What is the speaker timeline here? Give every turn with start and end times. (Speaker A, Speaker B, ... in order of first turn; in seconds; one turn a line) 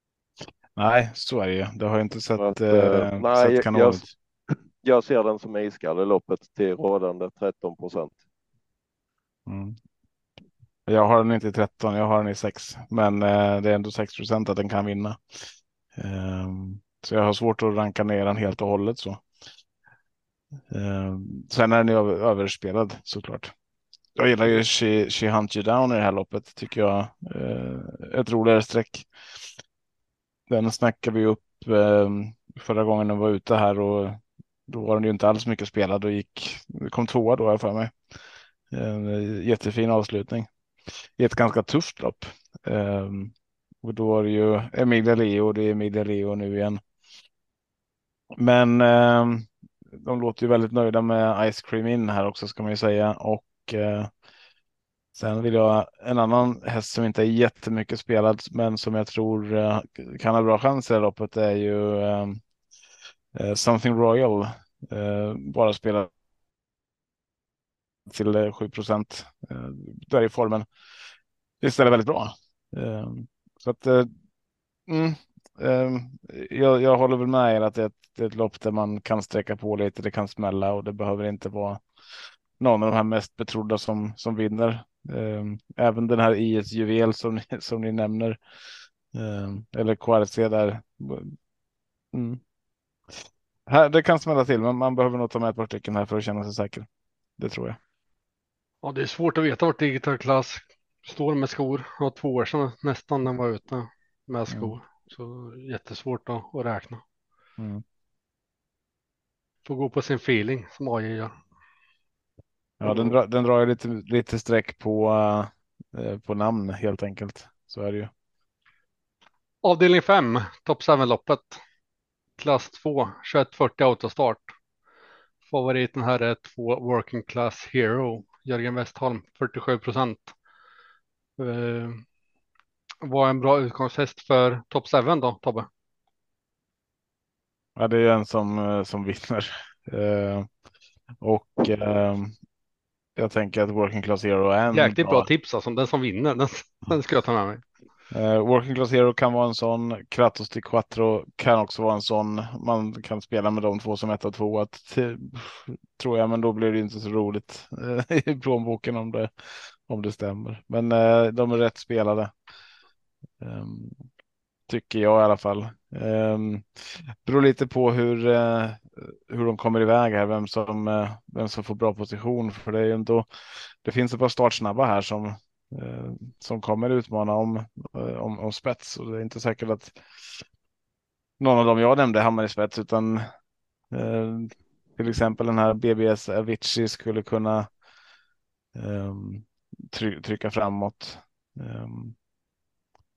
Speaker A: 0.8-4.1
Speaker B: 2.4-8.2
Speaker A: 9.5-9.8
Speaker A: 10.9-15.4
Speaker A: 16.0-19.2
Speaker A: 20.7-23.5
Speaker A: 24.2-29.1
Speaker A: 30.5-37.9
Speaker A: 38.7-40.5
Speaker A: 41.2-46.8
Speaker A: 48.4-54.1
Speaker A: 55.1-62.4
Speaker A: 63.3-66.1
Speaker A: 68.1-70.7
Speaker A: 71.6-74.1
Speaker A: 74.9-81.8
Speaker A: 82.6-88.4
Speaker A: 89.1-91.3
Speaker A: 92.1-92.4
Speaker A: 93.2-96.9
Speaker A: 97.4-97.8
Speaker C: 98.8-107.0
Speaker A: 104.5-104.8
Speaker A: 107.6-107.8
Speaker C: 109.7-111.3
Speaker A: 112.8-118.1
Speaker C: 119.6-121.6
Speaker C: 122.4-124.5
Speaker C: 125.5-130.3
Speaker C: 131.4-132.0
Speaker C: 133.0-135.7
Speaker A: 137.8-140.5
Speaker A: 141.2-142.3
Speaker A: 143.2-145.3
Speaker C: 144.7-147.6
Speaker A: 148.1-162.3
Speaker A: 163.4-164.1
Speaker A: 164.7-173.3
Speaker A: 173.8-180.4
Speaker A: 181.4-183.2
Speaker A: 183.9-187.7
Speaker A: 188.8-192.2